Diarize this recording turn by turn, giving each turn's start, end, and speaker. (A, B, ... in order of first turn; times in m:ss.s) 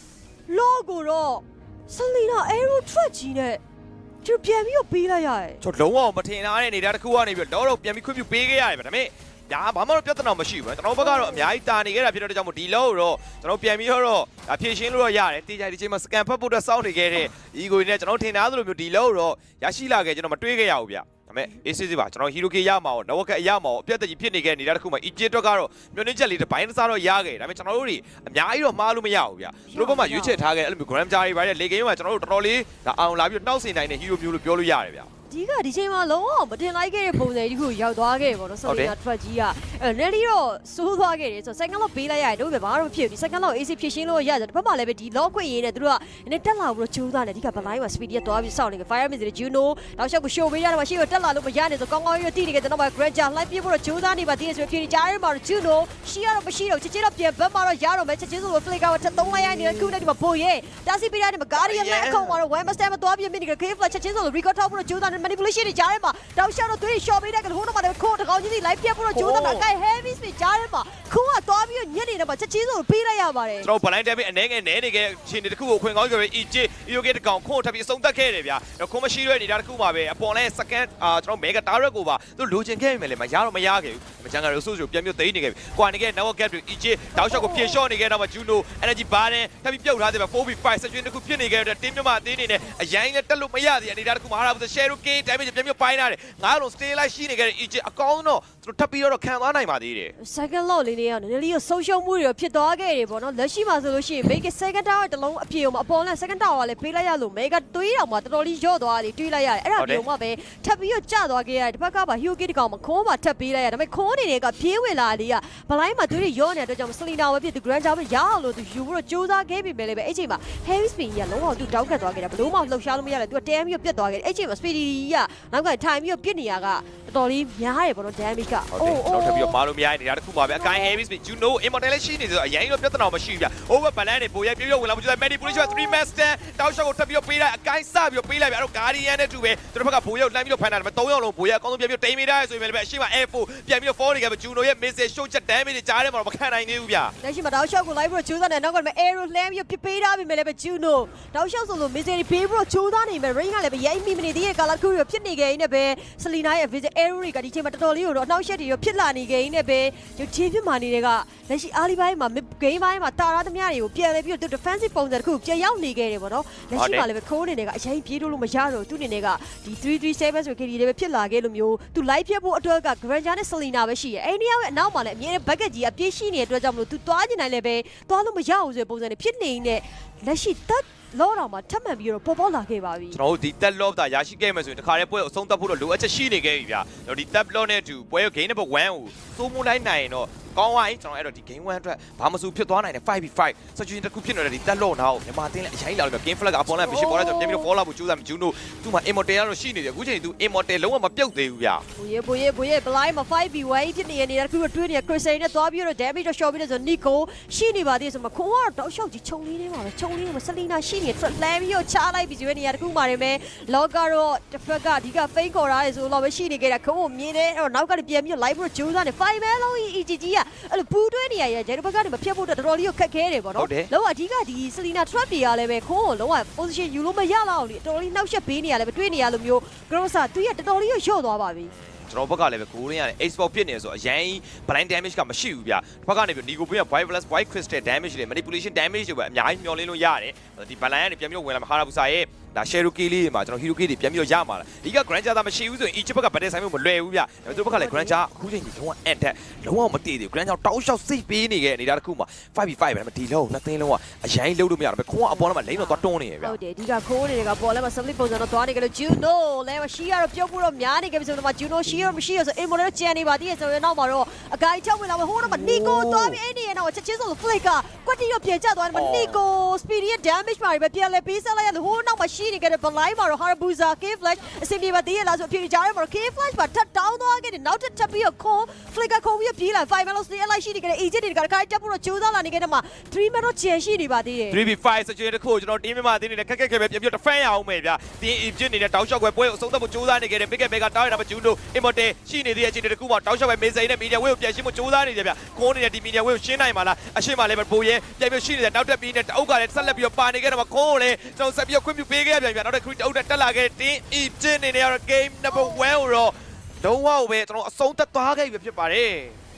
0:00.5-0:03.6 A
0:04.2-0:05.6 A
0:05.6-0:35.1 B
0:11.0-0:11.4 A
0:29.7-0:30.4 A
0:35.3-1:13.7 A
0:38.6-0:38.9 B
1:01.6-1:02.4 B
1:09.1-1:09.7 B
1:13.6-1:40.1 B
1:27.2-1:27.8 A
1:40.2-2:09.6 A
1:49.8-1:50.0 B
2:08.7-2:27.1 B
2:10.6-2:11.0 A
2:27.2-3:03.2 A
2:46.7-2:47.1 B
3:03.1-3:21.8 B
3:16.7-3:17.7 A
3:22.0-3:51.7 A
3:43.6-3:43.9 B
3:51.9-4:16.6 B
4:07.5-4:08.2 A
4:15.3-4:44.6 A
4:25.4-4:26.4 B
4:28.9-4:29.4 B
4:44.5-5:09.4 B